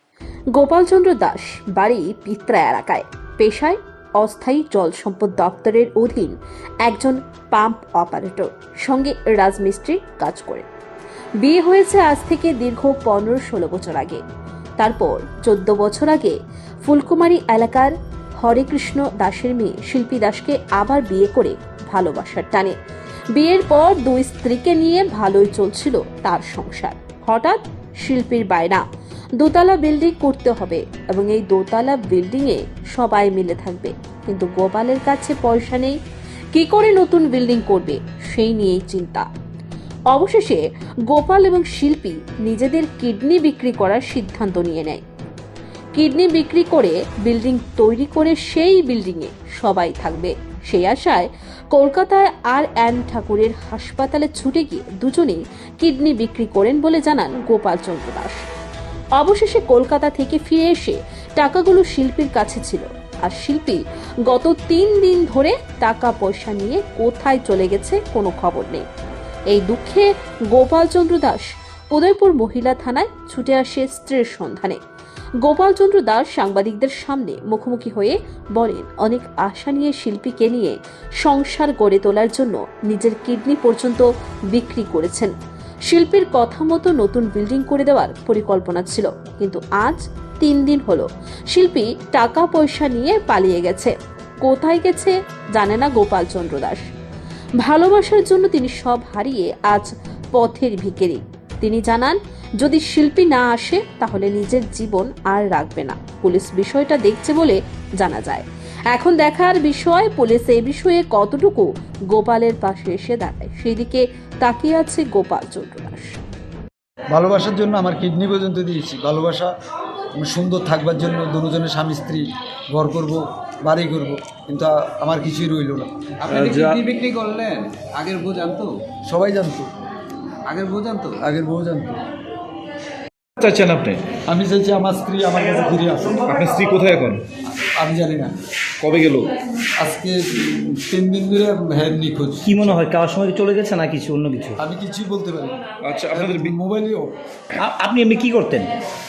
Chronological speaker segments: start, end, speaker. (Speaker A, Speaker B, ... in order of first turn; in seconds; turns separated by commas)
Speaker A: 0.5-10.7, Speaker A: 11.4-14.2, Speaker A: 14.8-22.7, Speaker A: 23.4-28.8, Speaker A: 29.4-36.0, Speaker A: 36.5-39.2, Speaker A: 40.1-45.0, Speaker A: 46.0-58.4, Speaker A: 59.2-68.8, Speaker A: 69.5-71.4, Speaker A: 71.9-74.8, Speaker A: 75.4-85.3, Speaker A: 85.9-96.9, Speaker A: 97.6-116.2, Speaker B: 117.1-119.5, Speaker B: 120.2-126.8, Speaker C: 126.2-128.7, Speaker B: 129.1-129.7, Speaker C: 130.5-131.2, Speaker B: 131.1-132.0, Speaker D: 133.4-134.1, Speaker B: 134.2-136.2, Speaker D: 136.2-137.2, Speaker B: 137.6-138.4, Speaker D: 138.8-139.3, Speaker B: 139.8-142.6, Speaker E: 142.4-144.6, Speaker B: 144.6-145.6, Speaker D: 145.8-146.5, Speaker B: 146.1-147.1, Speaker E: 147.6-148.7